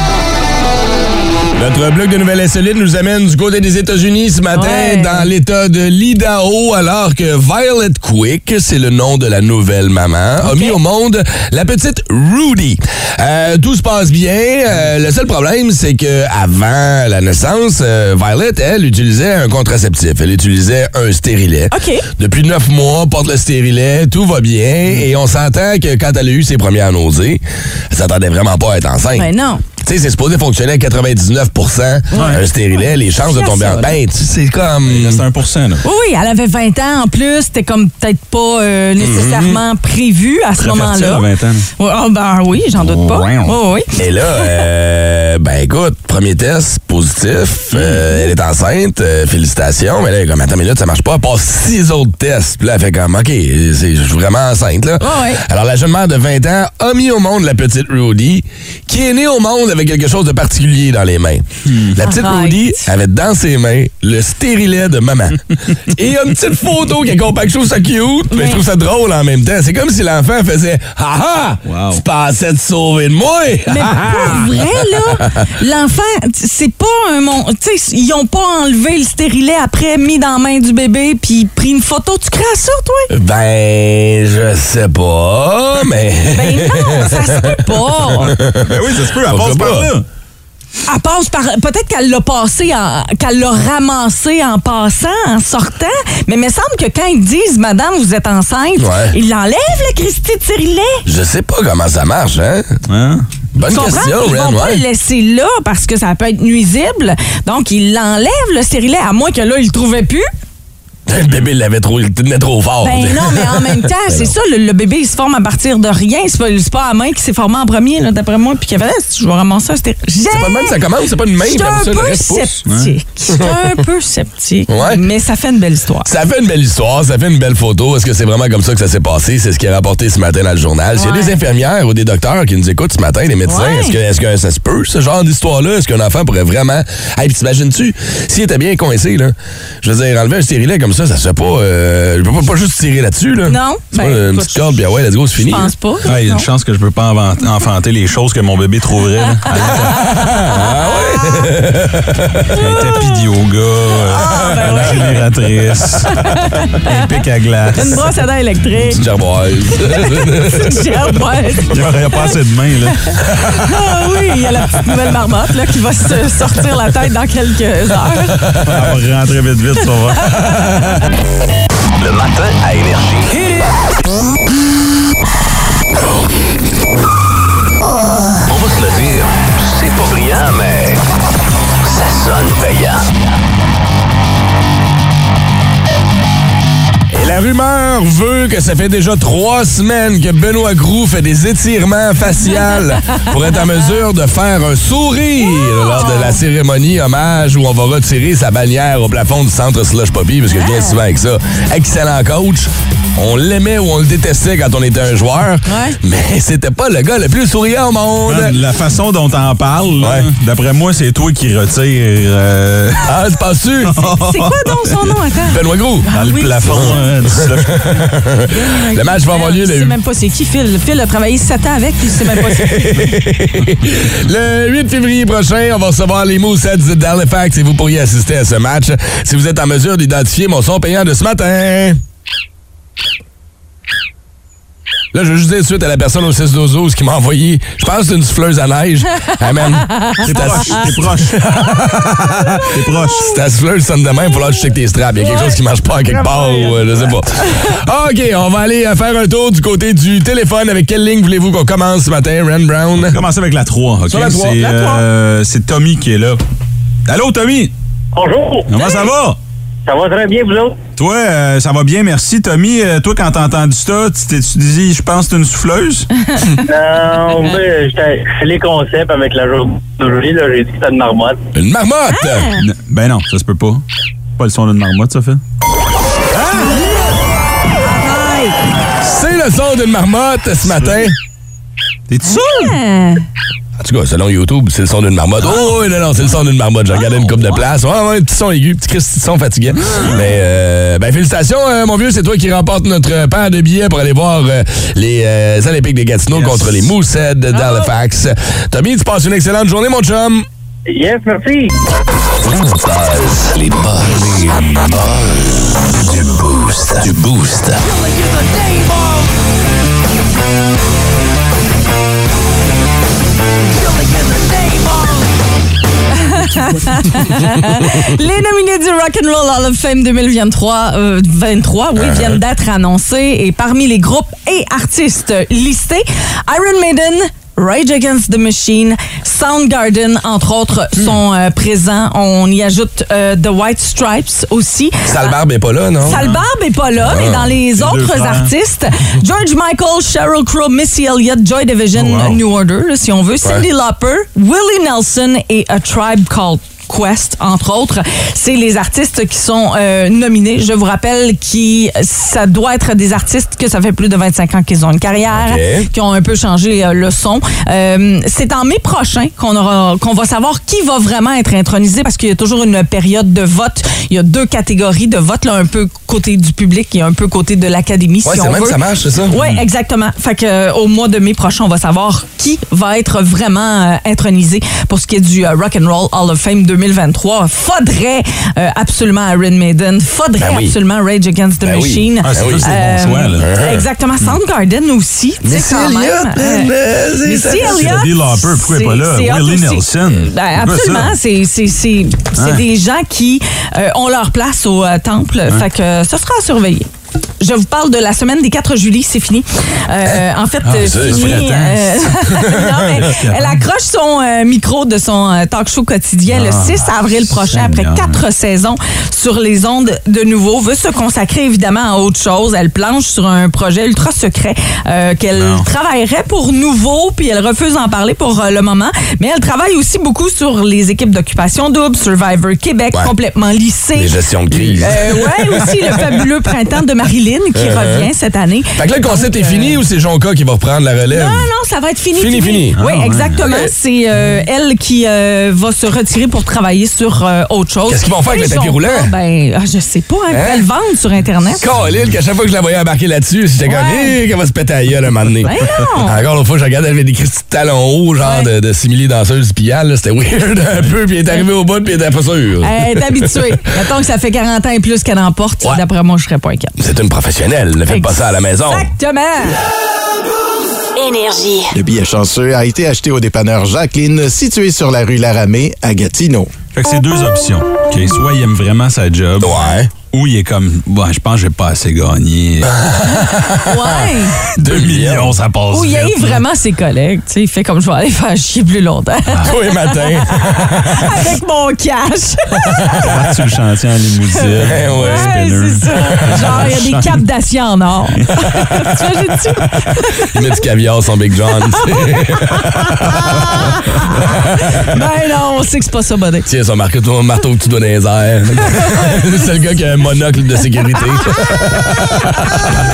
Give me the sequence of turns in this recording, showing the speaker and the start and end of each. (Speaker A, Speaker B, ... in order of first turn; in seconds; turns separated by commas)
Speaker A: 1.6-29.3, Speaker B: 4.5-5.3, Speaker B: 10.4-10.8, Speaker B: 21.7-22.0, Speaker B: 29.1-29.6, Speaker A: 29.8-35.2, Speaker B: 32.1-32.4, Speaker C: 32.1-32.4, Speaker B: 33.1-34.0, Speaker C: 34.8-35.8, Speaker B: 35.8-43.9, Speaker A: 39.0-39.6, Speaker C: 40.6-41.7, Speaker C: 42.7-43.5, Speaker A: 44.0-75.2, Speaker B: 47.8-48.3, Speaker B: 55.0-55.4, Speaker B: 62.0-62.9, Speaker B: 68.3-68.6, Speaker C: 71.7-72.0, Speaker B: 73.7-83.1, Speaker A: 83.1-89.9, Speaker B: 86.3-88.3, Speaker C: 88.2-90.0, Speaker B: 90.9-101.0, Speaker A: 98.8-99.1, Speaker A: 101.0-102.7, Speaker C: 102.9-103.2, Speaker A: 103.5-104.8, Speaker B: 103.6-110.2, Speaker A: 111.1-114.3, Speaker B: 112.8-120.8, Speaker A: 120.3-122.5, Speaker B: 121.4-126.1, Speaker C: 122.7-122.9, Speaker A: 123.3-123.7, Speaker A: 124.7-125.0, Speaker A: 126.0-145.7, Speaker B: 130.9-131.4, Speaker B: 133.4-134.0, Speaker B: 143.4-144.8, Speaker B: 145.4-146.5, Speaker C: 146.0-150.0, Speaker B: 149.6-151.5, Speaker A: 149.8-152.6, Speaker B: 152.5-153.2, Speaker C: 152.5-158.2, Speaker B: 154.1-155.2, Speaker A: 154.6-154.9, Speaker B: 156.1-157.1, Speaker B: 157.8-159.0, Speaker A: 158.9-160.9, Speaker B: 159.9-162.3, Speaker C: 161.7-163.1, Speaker B: 163.6-168.5, Speaker C: 168.5-170.7, Speaker B: 170.3-170.9, Speaker D: 172.0-173.4, Speaker D: 178.5-181.0, Speaker D: 181.8-183.1, Speaker A: 187.1-208.6, Speaker B: 195.4-196.4, Speaker B: 200.5-201.0, Speaker B: 205.7-206.0, Speaker C: 208.2-213.1, Speaker A: 210.0-210.3, Speaker A: 213.0-214.0, Speaker C: 213.9-214.9, Speaker B: 214.0-217.1, Speaker A: 215.5-216.1, Speaker C: 216.1-218.1, Speaker A: 216.7-219.9, Speaker B: 218.5-223.1, Speaker A: 222.3-232.0, Speaker A: 235.1-253.2, Speaker C: 240.2-241.4, Speaker B: 242.6-243.3, Speaker C: 242.7-243.3, Speaker B: 245.2-247.7, Speaker C: 253.1-256.4, Speaker A: 254.1-255.0, Speaker C: 257.1-257.7, Speaker E: 258.1-258.7, Speaker C: 258.7-259.4, Speaker E: 259.9-260.8, Speaker C: 261.0-266.1, Speaker E: 266.6-271.4, Speaker A: 271.5-272.5, Speaker B: 272.1-272.6, Speaker C: 272.6-273.8, Speaker C: 274.4-275.4, Speaker A: 276.3-276.8, Speaker B: 277.8-278.6, Speaker A: 279.0-281.1, Speaker C: 282.1-282.7, Speaker B: 282.2-283.2, Speaker A: 283.8-300.4, Speaker C: 289.8-290.2, Speaker C: 296.3-296.9, Speaker B: 297.5-297.9, Speaker E: 300.9-301.7, Speaker A: 302.4-304.9, Speaker D: 303.5-303.9, Speaker D: 304.7-307.1, Speaker A: 307.0-307.8, Speaker B: 316.1-335.3, Speaker A: 335.0-336.2, Speaker B: 336.0-386.7, Speaker C: 336.1-336.4, Speaker A: 337.0-337.5, Speaker C: 337.7-338.5, Speaker C: 341.9-342.4, Speaker A: 355.3-355.9, Speaker A: 368.2-369.3, Speaker C: 369.3-369.6, Speaker A: 380.4-380.7, Speaker A: 381.6-382.8, Speaker C: 382.2-383.5, Speaker A: 383.4-383.9, Speaker A: 385.4-388.0, Speaker B: 387.2-396.9, Speaker C: 387.6-391.1, Speaker C: 392.4-392.6, Speaker B: 397.4-424.1, Speaker A: 400.0-401.5, Speaker C: 400.6-402.1, Speaker A: 402.4-403.0, Speaker C: 402.9-403.6, Speaker C: 406.3-408.2, Speaker C: 415.3-415.6, Speaker A: 423.9-425.6, Speaker C: 424.5-424.9, Speaker B: 424.8-429.8, Speaker A: 427.5-428.1, Speaker A: 428.8-431.5, Speaker B: 431.1-441.6, Speaker A: 432.1-432.8, Speaker C: 432.8-433.4, Speaker A: 437.9-439.1, Speaker A: 440.3-440.6, Speaker A: 441.6-453.6, Speaker B: 443.6-444.1, Speaker B: 445.4-446.2, Speaker B: 448.2-448.5, Speaker B: 452.6-456.7, Speaker A: 456.8-458.9, Speaker B: 457.9-459.6, Speaker D: 461.1-461.7, Speaker F: 461.7-466.5, Speaker C: 466.7-472.8, Speaker A: 469.4-469.9, Speaker A: 472.7-475.4, Speaker B: 473.6-474.4, Speaker C: 474.5-476.4, Speaker B: 475.7-483.1, Speaker A: 479.4-481.1, Speaker C: 483.0-487.2, Speaker B: 484.4-490.4, Speaker A: 484.7-485.3, Speaker A: 486.0-486.6, Speaker C: 488.2-489.0, Speaker A: 490.3-493.0, Speaker B: 491.5-496.5, Speaker A: 496.4-502.4, Speaker B: 498.6-499.4, Speaker B: 501.3-501.6, Speaker B: 502.2-502.6